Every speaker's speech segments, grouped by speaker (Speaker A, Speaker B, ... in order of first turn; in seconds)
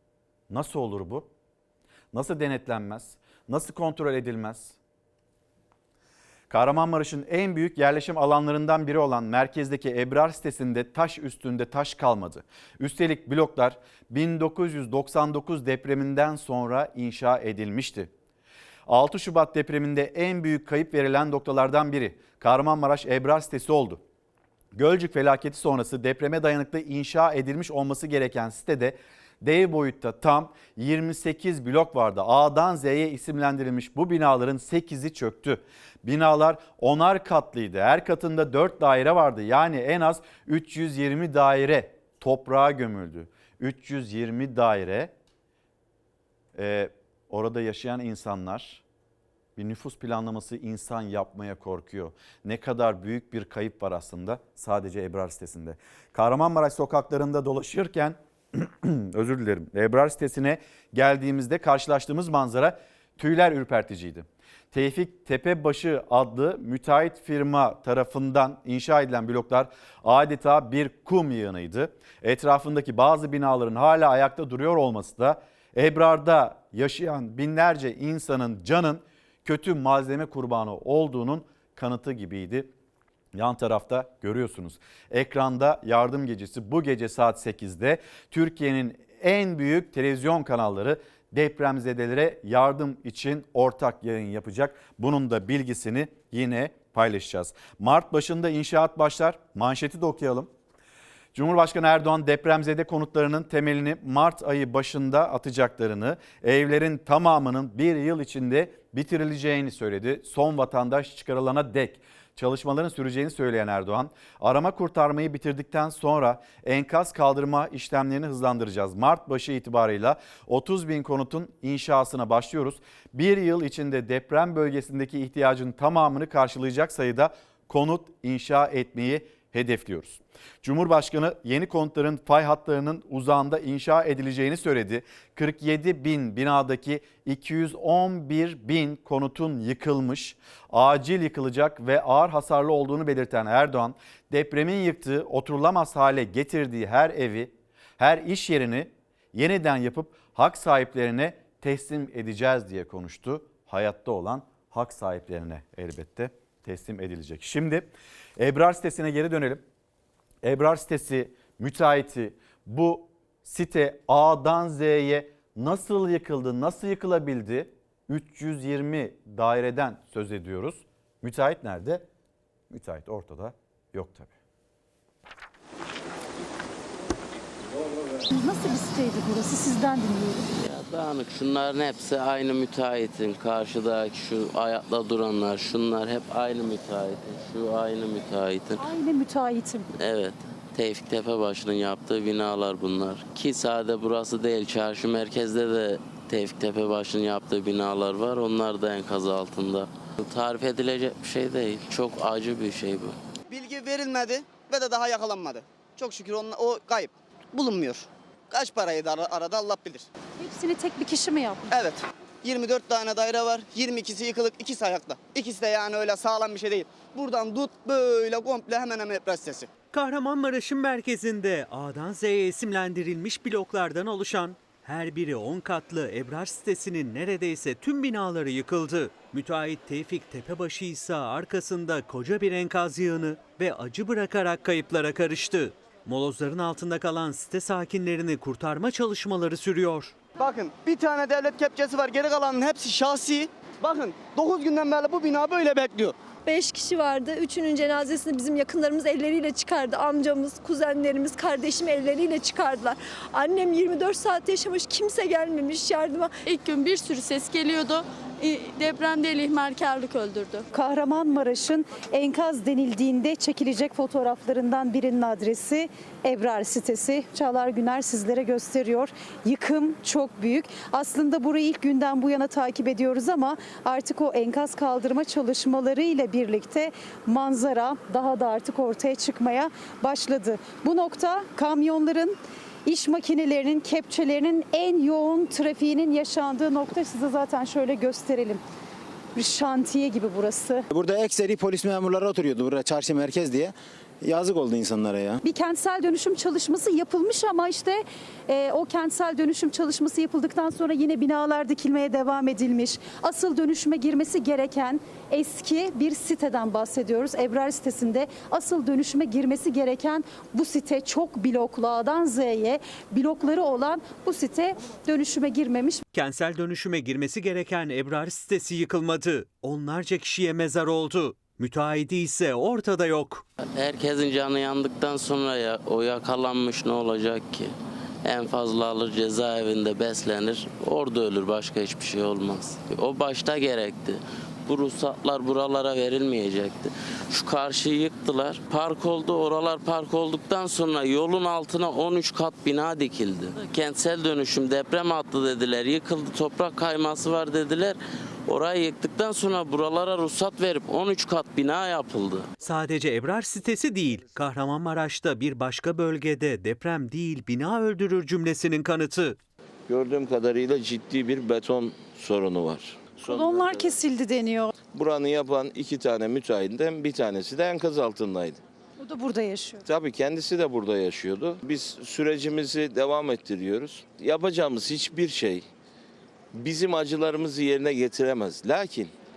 Speaker A: 0.5-1.3, 2.1-4.8, 6.5-18.1, 18.9-24.0, 24.8-45.1, 46.5-48.8, 49.6-82.7, 83.3-100.5, 101.3-159.6, 160.4-172.1, 172.7-174.3
Speaker B: 178.3-180.5, 188.8-189.9, 210.4-211.9, 260.7-288.6, 289.4-290.9, 295.4-316.1, 363.2-364.7, 369.0-369.8
Speaker C: 180.6-188.8, 190.0-203.1, 323.8-327.7, 328.2-352.5
Speaker D: 203.5-210.1, 211.7-219.7, 240.4-246.1
Speaker E: 219.9-240.2, 316.1-323.4, 352.6-359.4
Speaker F: 246.5-256.4
Speaker G: 256.5-260.6
Speaker H: 290.9-295.4
Speaker I: 359.9-363.9, 364.9-368.6, 369.9-375.7, 376.5-379.1